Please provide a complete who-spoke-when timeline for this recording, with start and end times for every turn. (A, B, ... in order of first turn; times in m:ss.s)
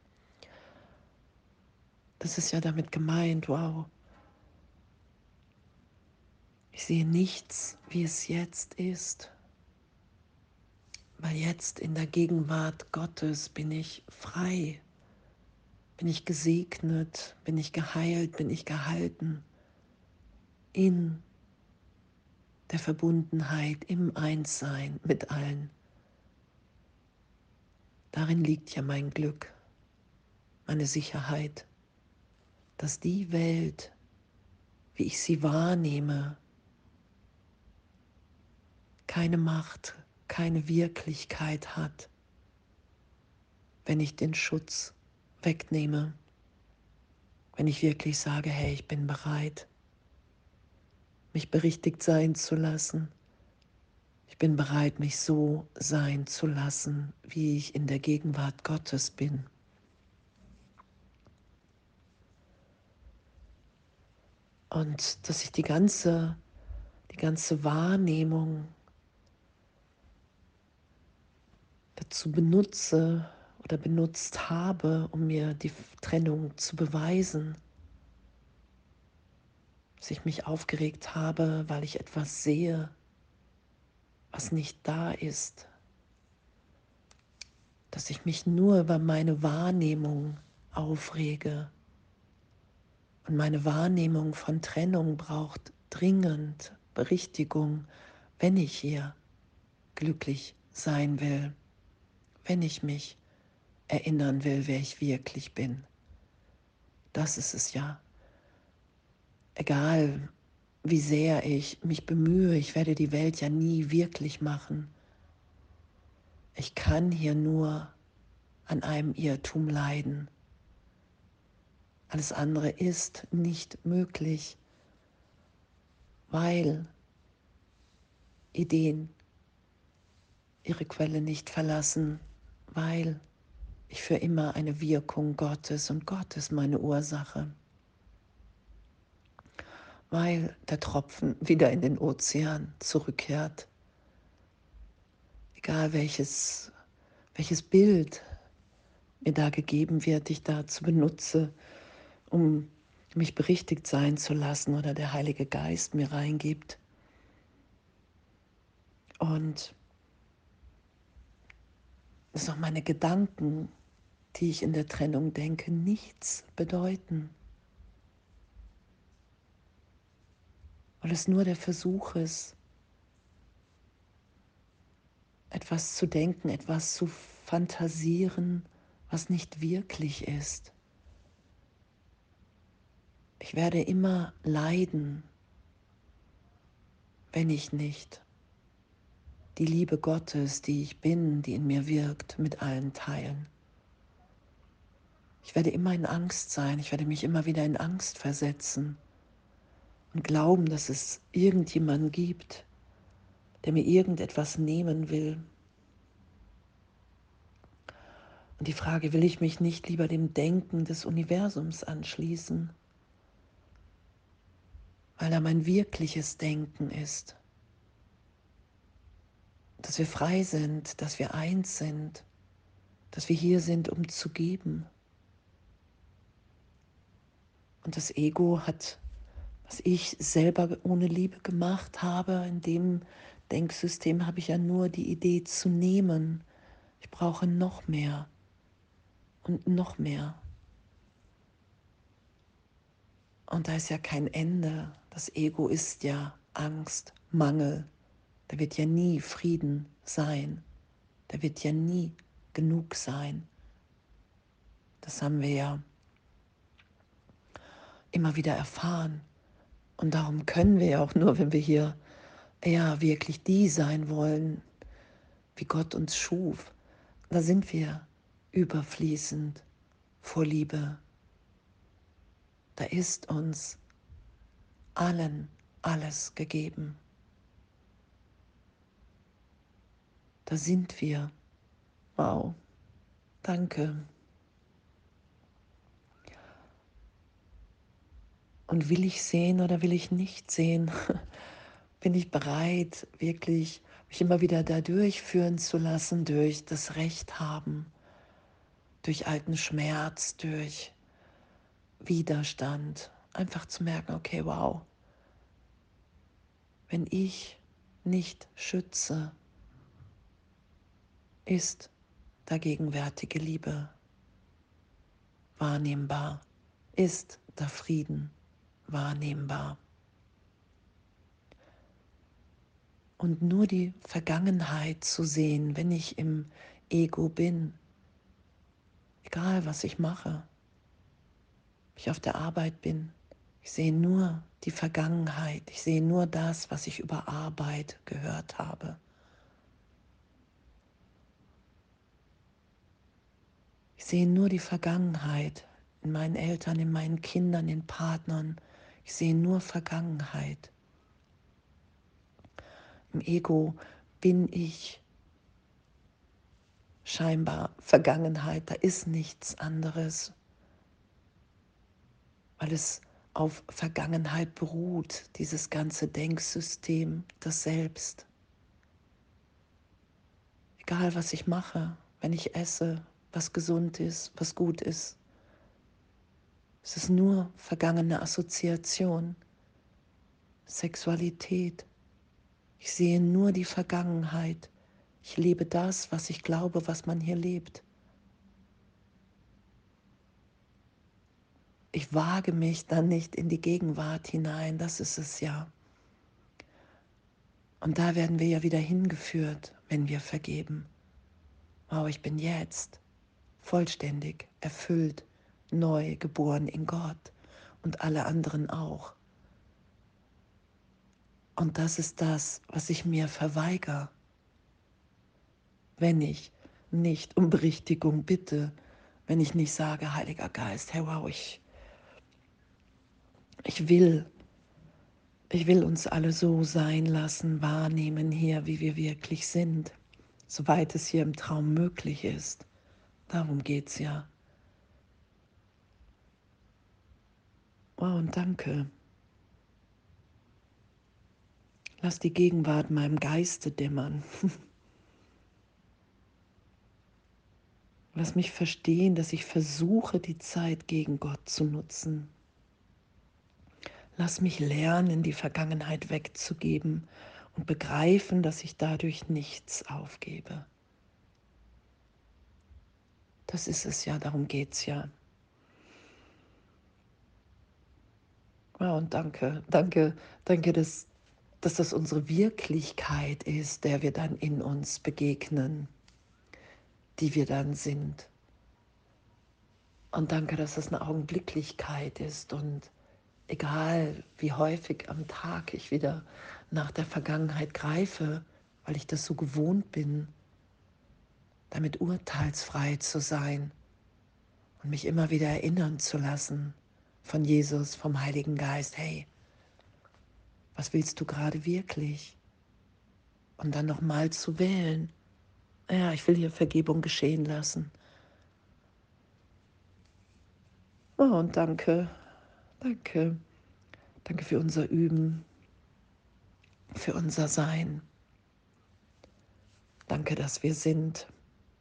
0:02.2-0:03.9 A
0:06.7-0:09.3 A
0:11.2-0:14.8 A
0:16.0-0:19.5 A
0:20.7-0:21.2 A
0:22.7-0:25.7 A
0:28.1-0:29.6 A
0:30.7-0:31.7 A
0:32.8-0:34.0 A
0:35.0-0:36.4 A
0:39.1-0:42.1 A
0:43.8-0:46.2 A
0:47.6-0:49.7 A
0:51.3-0:53.1 A
0:54.3-0:59.5 A
1:04.7-1:06.4 A
1:07.1-1:08.7 A
1:12.0-1:17.6 A
1:20.0-1:23.0 A
1:24.3-1:25.7 A
1:27.9-1:31.7 A
1:33.2-1:37.9 A
1:38.4-1:39.2 A
1:40.0-1:41.6 A
1:42.4-1:43.2 A
1:43.9-1:45.9 A
1:47.1-1:48.0 A
1:49.6-1:50.3 A
1:50.8-1:54.9 A
1:56.6-1:58.0 A
1:58.7-2:00.3 A
2:02.1-2:04.6 A
2:06.3-2:06.9 A
2:08.5-2:09.2 A
2:10.6-2:13.2 A
2:13.9-2:17.5 A
2:20.1-2:23.7 A
2:25.6-2:26.7 A
2:27.3-2:28.2 A
2:29.2-2:31.5 A
2:32.3-2:36.8 A
2:39.2-2:39.8 A
2:42.3-2:43.7 A
2:44.3-2:47.3 A
2:51.0-2:52.6 A
2:55.5-3:00.7 A
3:03.4-3:05.3 A
3:07.3-3:08.3 A
3:09.6-3:13.5 A
3:15.4-3:19.0 A
3:20.1-3:22.7 A
3:23.6-3:25.4 A
3:28.6-3:32.7 A
3:35.2-3:37.4 A
3:39.8-3:42.3 A
3:43.1-3:44.9 A
3:47.8-3:49.0 A
3:49.6-3:56.4 A
3:57.0-3:58.3 A
3:59.4-4:00.4 A
4:03.5-4:07.9 A
4:08.5-4:10.6 A
4:11.3-4:13.5 A
4:15.0-4:15.8 A
4:18.1-4:19.3 A
4:20.0-4:22.0 A
4:22.6-4:24.6 A
4:25.6-4:26.8 A
4:27.3-4:29.6 A
4:30.2-4:31.0 A
4:32.8-4:33.8 A
4:35.0-4:37.0 A
4:40.5-4:41.3 A
4:42.2-4:42.6 A
4:43.4-4:44.1 A
4:48.7-4:51.3 A
4:52.0-4:57.9 A
4:59.0-5:01.0 A
5:02.0-5:04.9 A
5:06.9-5:09.4 A
5:11.5-5:11.9 A
5:12.5-5:14.0 A
5:15.6-5:18.4 A
5:18.9-5:19.8 A
5:23.2-5:27.8 A
5:29.2-5:30.5 A
5:32.0-5:39.0 A
5:44.0-5:50.7 A
5:53.1-5:55.0 A
5:57.0-6:00.4 A
6:02.6-6:08.3 A
6:10.8-6:15.2 A
6:16.8-6:19.4 A
6:20.7-6:21.9 A
6:22.8-6:24.7 A
6:25.2-6:27.8 A
6:31.9-6:35.7 A
6:37.8-6:40.9 A
6:41.9-6:43.0 A
6:43.6-6:49.2 A
6:51.6-6:54.1 A
6:56.0-6:58.8 A
6:59.3-7:01.6 A
7:03.6-7:04.3 A
7:05.5-7:12.7 A
7:13.3-7:14.3 A
7:18.0-7:18.9 A
7:22.0-7:24.6 A
7:28.1-7:32.3 A
7:34.2-7:40.7 A
7:43.5-7:45.1 A
7:48.8-7:51.1 A
7:51.6-7:55.9 A
7:57.2-7:58.3 A
8:00.1-8:02.9 A
8:03.5-8:10.3 A
8:11.7-8:13.8 A
8:14.8-8:19.3 A
8:20.8-8:22.4 A
8:23.6-8:25.1 A
8:25.9-8:27.9 A
8:31.2-8:32.2 A
8:32.8-8:33.4 A
8:34.2-8:35.5 A
8:36.9-8:38.0 A
8:40.1-8:41.3 A